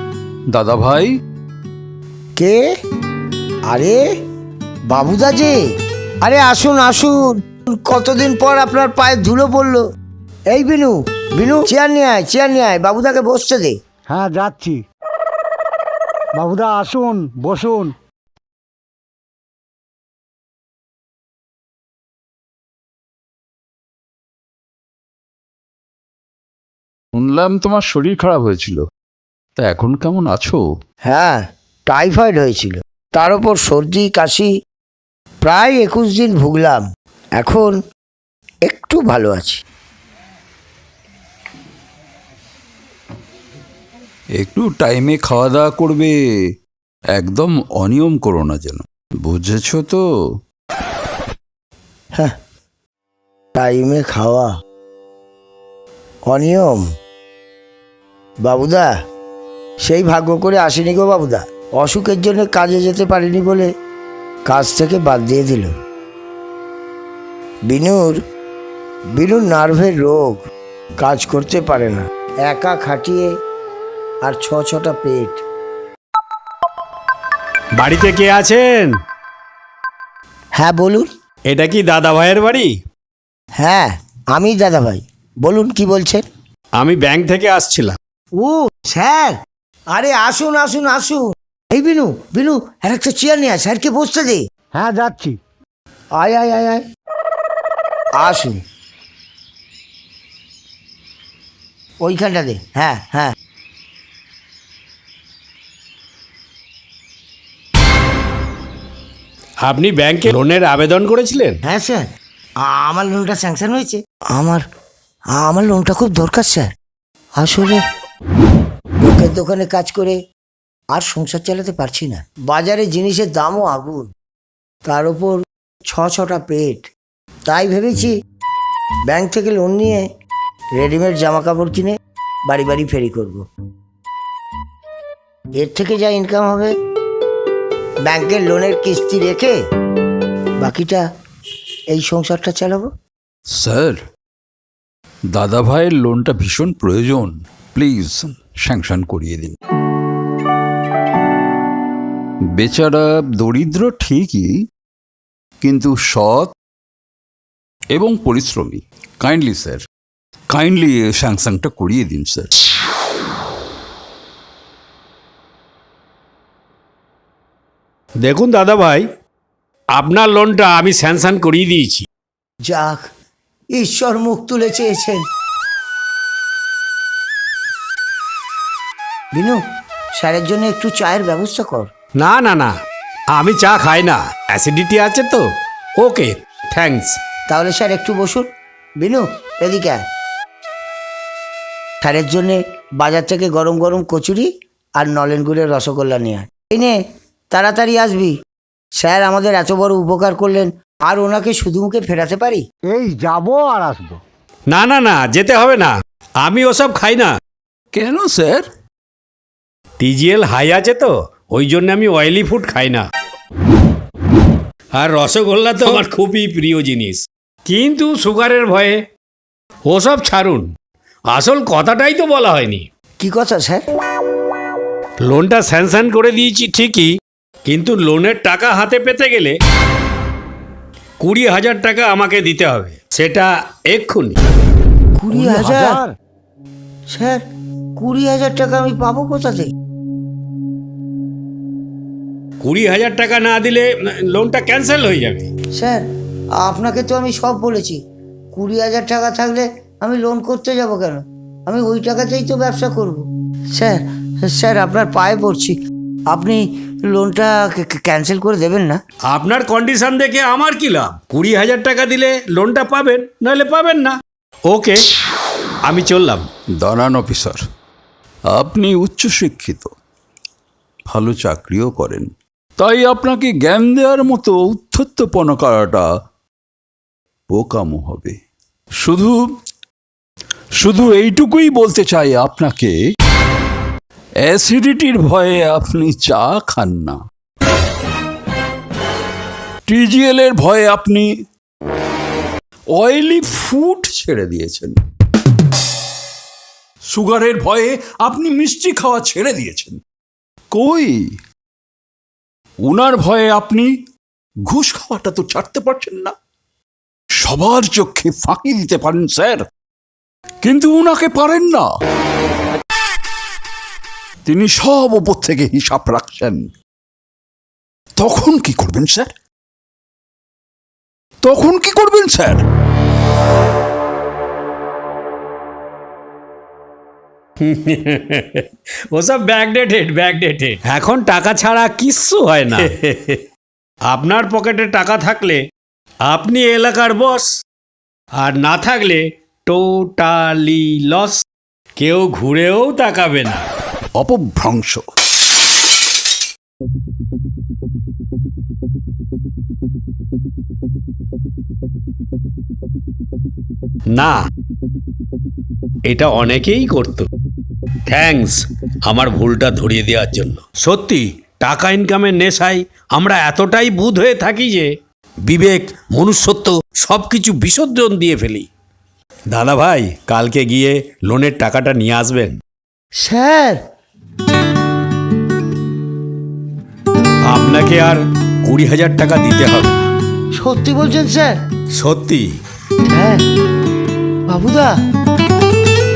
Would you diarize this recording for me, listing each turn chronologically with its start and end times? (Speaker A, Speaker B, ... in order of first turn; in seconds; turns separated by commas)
Speaker A: 0.5-1.1, Speaker B: 2.4-2.7, Speaker B: 3.7-4.0, Speaker B: 4.9-5.6, Speaker B: 6.2-9.8, Speaker B: 10.5-13.8, Speaker C: 14.1-14.8, Speaker C: 16.3-17.9, Speaker A: 27.1-28.8, Speaker A: 29.6-30.6, Speaker B: 31.0-34.5, Speaker B: 35.4-36.8, Speaker B: 37.4-37.8, Speaker B: 38.7-39.6, Speaker A: 44.4-46.1, Speaker A: 47.1-50.0, Speaker B: 53.5-54.5, Speaker B: 56.3-56.9, Speaker B: 58.4-58.9, Speaker B: 59.8-63.7, Speaker B: 64.5-65.7, Speaker B: 67.7-68.2, Speaker B: 69.1-70.5, Speaker B: 71.0-73.3, Speaker B: 74.2-75.4, Speaker D: 77.8-79.0, Speaker B: 80.5-81.1, Speaker D: 81.5-82.7, Speaker B: 83.6-86.2, Speaker D: 86.8-88.0, Speaker B: 88.4-89.4, Speaker B: 89.9-94.4, Speaker C: 94.7-95.4, Speaker B: 96.2-96.8, Speaker B: 98.2-98.6, Speaker B: 102.0-103.3, Speaker D: 109.6-111.6, Speaker B: 111.6-112.0, Speaker B: 112.6-114.6, Speaker B: 115.3-116.7, Speaker B: 117.4-117.8, Speaker B: 119.0-120.2, Speaker B: 120.9-124.1, Speaker B: 124.8-126.9, Speaker B: 127.5-128.1, Speaker B: 129.0-130.0, Speaker B: 130.8-131.9, Speaker B: 132.5-133.5, Speaker B: 135.6-136.7, Speaker B: 138.0-139.6, Speaker B: 140.6-141.0, Speaker B: 141.9-142.9, Speaker A: 143.5-144.0, Speaker A: 145.3-149.5, Speaker A: 152.6-154.5, Speaker A: 155.6-156.5, Speaker A: 157.9-159.8, Speaker A: 160.5-162.5, Speaker D: 168.2-169.1, Speaker D: 169.9-172.0, Speaker B: 172.7-173.1, Speaker B: 173.7-175.2, Speaker B: 179.3-179.6, Speaker B: 180.2-181.9, Speaker D: 182.2-182.7, Speaker D: 183.3-185.4, Speaker D: 186.0-187.2, Speaker B: 187.5-188.5, Speaker B: 189.0-190.0, Speaker B: 192.0-197.0, Speaker B: 197.5-198.3, Speaker B: 198.9-202.6, Speaker C: 202.9-204.2, Speaker D: 204.7-207.3, Speaker A: 207.9-208.7, Speaker D: 210.0-213.0, Speaker D: 214.9-219.0, Speaker D: 219.9-220.7, Speaker D: 221.3-222.8, Speaker B: 223.2-223.8, Speaker D: 225.2-227.1, Speaker D: 227.7-229.6, Speaker D: 231.2-234.4, Speaker B: 235.2-236.0, Speaker C: 235.3-236.0, Speaker B: 237.1-237.4, Speaker B: 238.0-239.7, Speaker D: 242.6-245.5, Speaker B: 245.7-248.0, Speaker B: 248.5-255.8, Speaker B: 256.3-259.0, Speaker D: 259.3-264.2, Speaker D: 264.7-265.0, Speaker D: 265.9-266.4, Speaker A: 266.8-267.6, Speaker A: 268.5-269.9, Speaker A: 271.1-272.3, Speaker A: 272.8-276.0, Speaker A: 277.5-278.4, Speaker A: 279.0-279.4, Speaker A: 280.8-282.9, Speaker A: 284.4-287.2, Speaker A: 289.9-291.3, Speaker A: 292.9-295.0, Speaker A: 297.1-300.0, Speaker A: 300.7-301.2, Speaker A: 302.8-303.9, Speaker A: 304.7-306.3, Speaker A: 307.3-309.6, Speaker A: 310.6-311.9, Speaker A: 314.4-316.7, Speaker A: 318.2-319.3, Speaker A: 321.4-322.6, Speaker D: 327.6-333.4, Speaker D: 334.1-335.6, Speaker D: 336.3-337.6, Speaker D: 338.4-341.4, Speaker D: 342.0-343.6, Speaker A: 344.1-345.0, Speaker D: 356.1-357.3, Speaker D: 358.1-364.9, Speaker D: 365.4-368.7, Speaker D: 369.5-372.6, Speaker B: 373.2-373.8, Speaker D: 377.5-380.1, Speaker B: 380.6-381.5, Speaker D: 381.9-382.5, Speaker B: 383.1-383.4, Speaker B: 384.5-385.0